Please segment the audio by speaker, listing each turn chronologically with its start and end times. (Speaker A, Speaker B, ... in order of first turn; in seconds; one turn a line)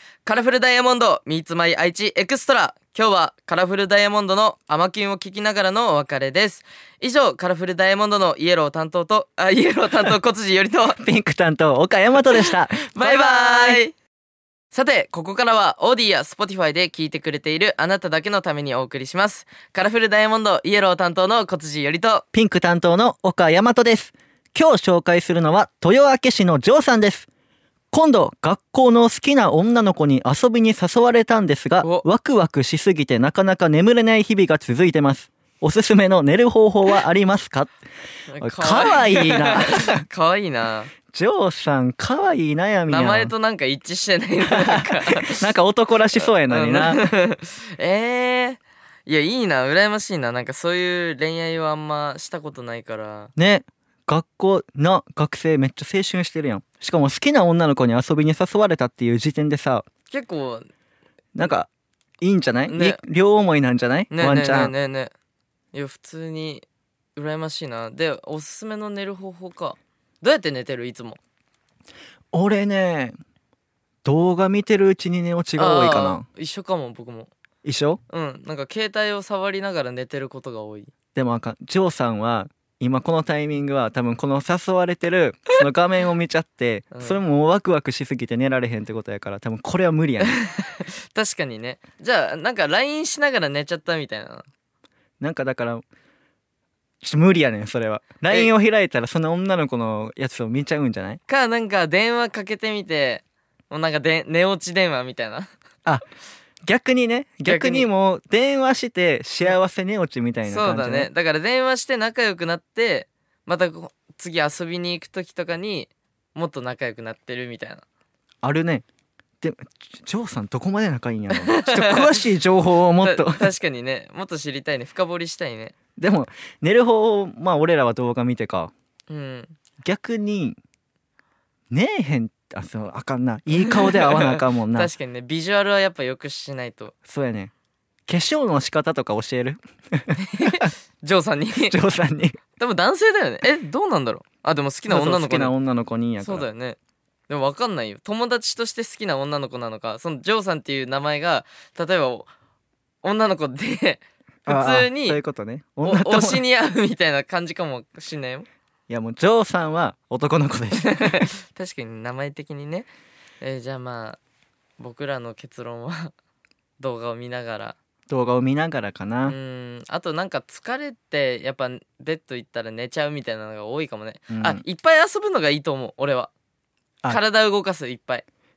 Speaker A: 0.2-11.0
Speaker B: 11.0-13.8
Speaker A: 12.8-13.9
Speaker A: 14.7-22.2
Speaker B: 22.3-27.3
Speaker B: 27.9-37.8
Speaker A: 38.3-40.9
Speaker B: 38.4-40.0
Speaker B: 41.1-43.3
Speaker A: 42.9-45.4
Speaker B: 44.4-47.1
Speaker A: 46.2-53.3
Speaker B: 53.4-59.9
Speaker A: 60.1-60.7
Speaker B: 61.4-61.7
Speaker B: 62.2-64.7
Speaker A: 62.7-63.0
Speaker A: 64.1-65.1
Speaker A: 65.7-66.6
Speaker A: 67.2-71.2
Speaker B: 72.3-73.2
Speaker B: 74.0-76.2
Speaker A: 75.6-77.3
Speaker B: 77.6-78.0
Speaker A: 78.1-80.9
Speaker B: 81.1-90.4
Speaker A: 86.9-87.2
Speaker A: 90.2-94.5
Speaker B: 95.2-95.8
Speaker B: 97.0-101.2
Speaker A: 101.3-105.5
Speaker B: 106.6-111.1
Speaker A: 107.5-107.9
Speaker A: 110.5-117.8
Speaker B: 118.4-118.8
Speaker B: 119.4-123.5
Speaker A: 121.3-122.1
Speaker A: 123.0-125.7
Speaker B: 126.0-128.7
Speaker A: 129.1-129.5
Speaker B: 129.8-130.6
Speaker B: 131.7-134.9
Speaker A: 133.6-136.9
Speaker B: 137.1-137.5
Speaker B: 138.1-140.7
Speaker A: 140.2-141.8
Speaker B: 141.6-142.4
Speaker A: 142.6-145.5
Speaker B: 144.9-146.5
Speaker A: 146.2-146.8
Speaker A: 147.3-152.3
Speaker A: 153.0-155.2
Speaker B: 154.4-156.4
Speaker A: 155.8-158.5
Speaker B: 158.9-161.3
Speaker A: 160.8-162.9
Speaker A: 163.4-164.2
Speaker A: 164.8-166.1
Speaker A: 166.8-167.8
Speaker B: 168.1-169.3
Speaker A: 169.2-176.3
Speaker B: 174.3-174.6
Speaker A: 177.1-178.2